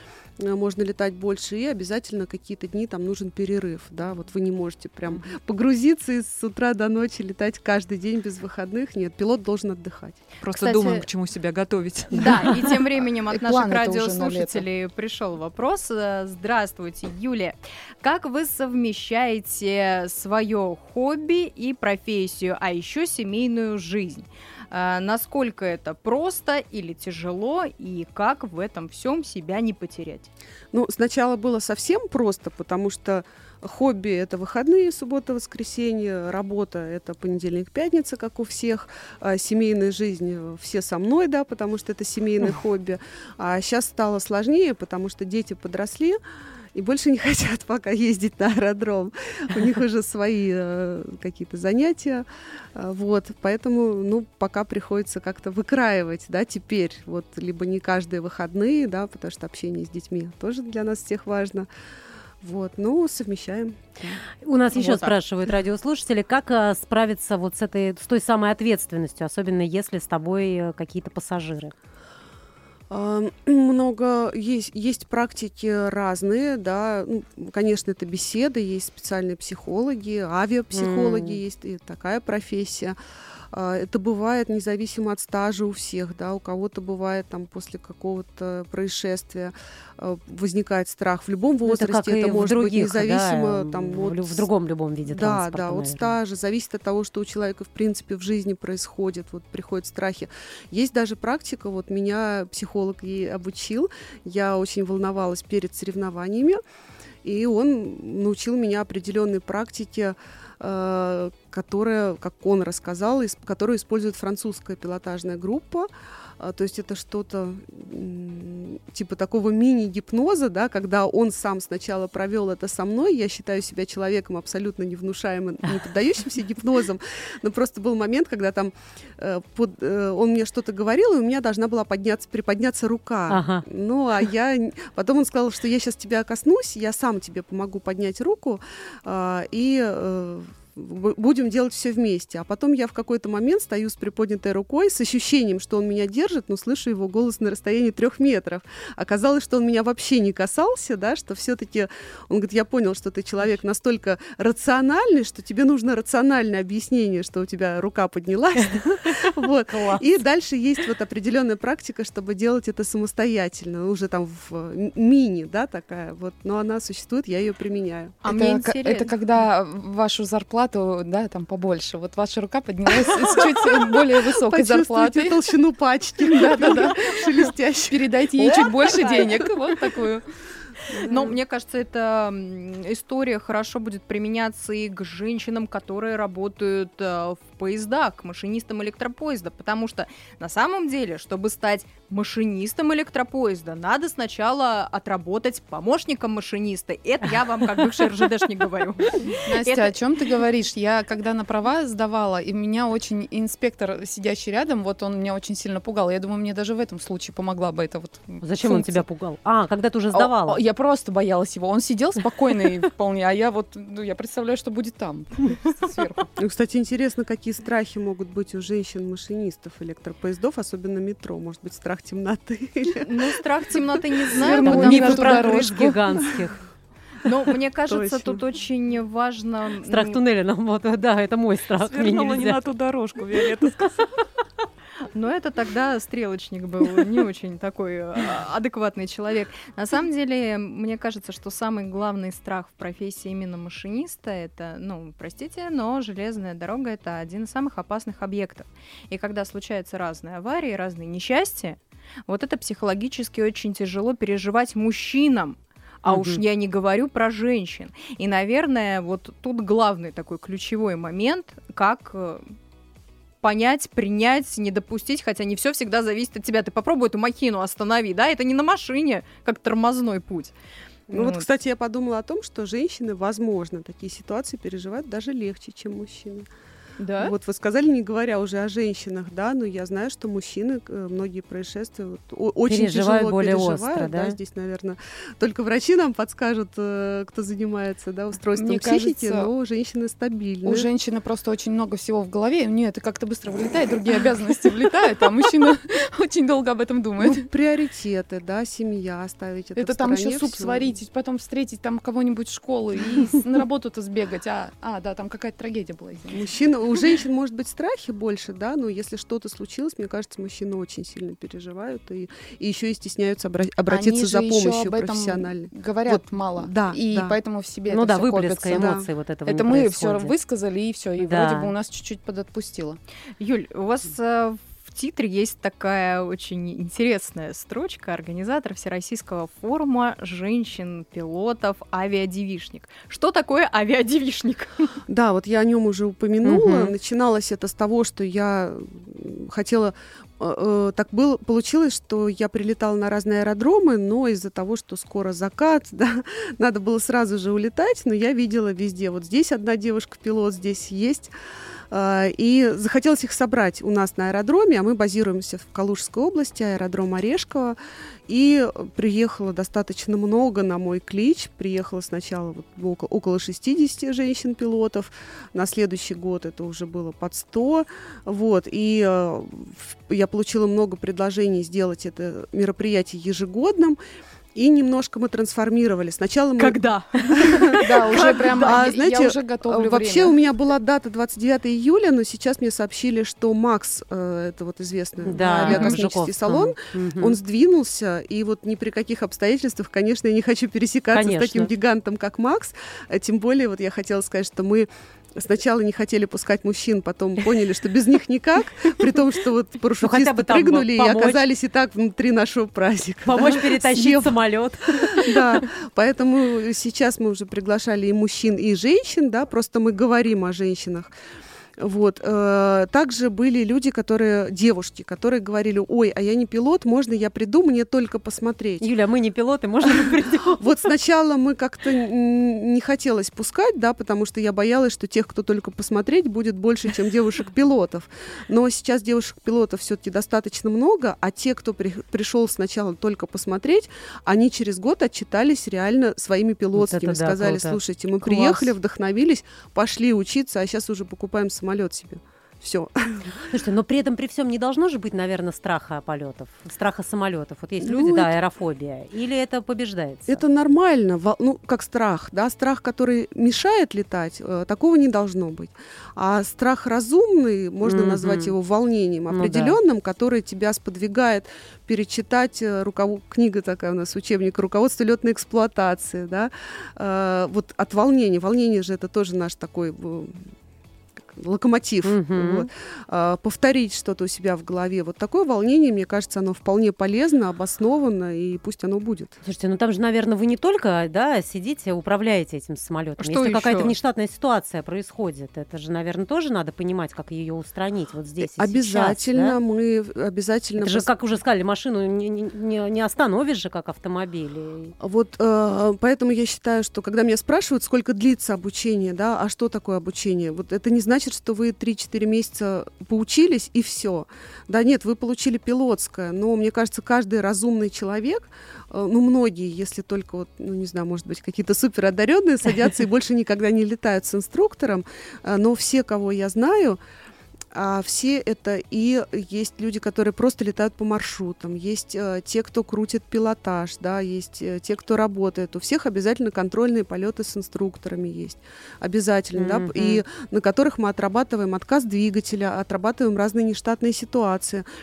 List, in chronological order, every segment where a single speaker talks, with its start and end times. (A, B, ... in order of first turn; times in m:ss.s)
0:00.4-0:10.2 A
0:10.4-0:12.8 B
0:10.5-0:11.0 C
0:12.1-0:30.3 C
0:13.3-0:14.6 D
0:30.7-0:46.2 A
0:46.7-1:01.7 A
1:02.4-1:04.2 A
1:04.4-1:11.7 E
1:04.7-1:05.1 C
1:12.9-1:23.0 A
1:20.7-1:21.4 E
1:23.5-1:34.5 A
1:31.7-1:36.1 E
1:35.0-1:46.6 A
1:47.2-2:48.2 A
2:13.3-2:13.6 E
2:39.1-2:40.1 E
2:48.2-2:49.2 C
2:48.3-2:55.4 D
2:54.3-2:59.3 A
2:56.2-3:00.2 D
3:01.0-3:20.0 C
3:19.4-3:29.0 D
3:28.4-3:30.6 E
3:30.1-3:36.3 D
3:36.4-3:43.4 A
3:43.0-3:45.7 C
3:44.3-3:46.0 D
3:44.5-3:46.6 E
3:47.2-3:50.2 C
3:47.9-3:48.4 A
3:49.8-3:52.6 E
3:51.8-3:54.0 B
3:55.1-4:22.4 C
4:16.1-4:16.4 E
4:23.4-4:30.5 C
4:31.1-4:31.5 C
4:31.1-4:36.5 A
4:37.0-4:37.3 C
4:37.2-4:50.9 A
4:42.7-4:44.4 E
4:48.6-4:49.5 D
4:50.6-4:57.4 D
4:57.2-5:00.9 A
4:59.8-5:06.4 D
5:06.3-5:17.3 A
5:13.9-5:23.0 D
5:17.9-5:20.3 E
5:18.7-5:19.0 A
5:21.2-5:21.7 E
5:23.4-5:34.9 C
5:35.1-5:51.3 A
5:36.4-5:36.9 E
5:51.9-5:57.8 A
5:58.3-6:14.0 A
6:14.5-6:16.8 A
6:16.6-6:18.9 C
6:17.4-6:17.9 A
6:17.8-6:20.3 D
6:18.6-6:51.1 A
6:25.2-6:27.4 E
6:25.4-6:25.9 C
6:31.1-6:31.7 E
6:40.0-6:41.4 E
6:43.2-6:45.6 E
6:51.8-6:58.9 A
6:58.8-7:00.7 E
7:00.6-7:23.2 A
7:16.8-7:18.7 E
7:23.5-7:30.4 E
7:27.8-7:28.4 A
7:30.3-7:50.5 A
7:37.8-7:38.5 E
7:39.3-7:39.8 E
7:51.3-7:59.4 A
7:52.0-7:52.7 E
7:59.4-8:09.6 E
8:03.2-8:03.9 C
8:08.4-8:11.1 A
8:10.8-8:14.9 E
8:15.0-8:37.0 A
8:37.7-8:54.8 A
8:49.5-8:50.2 E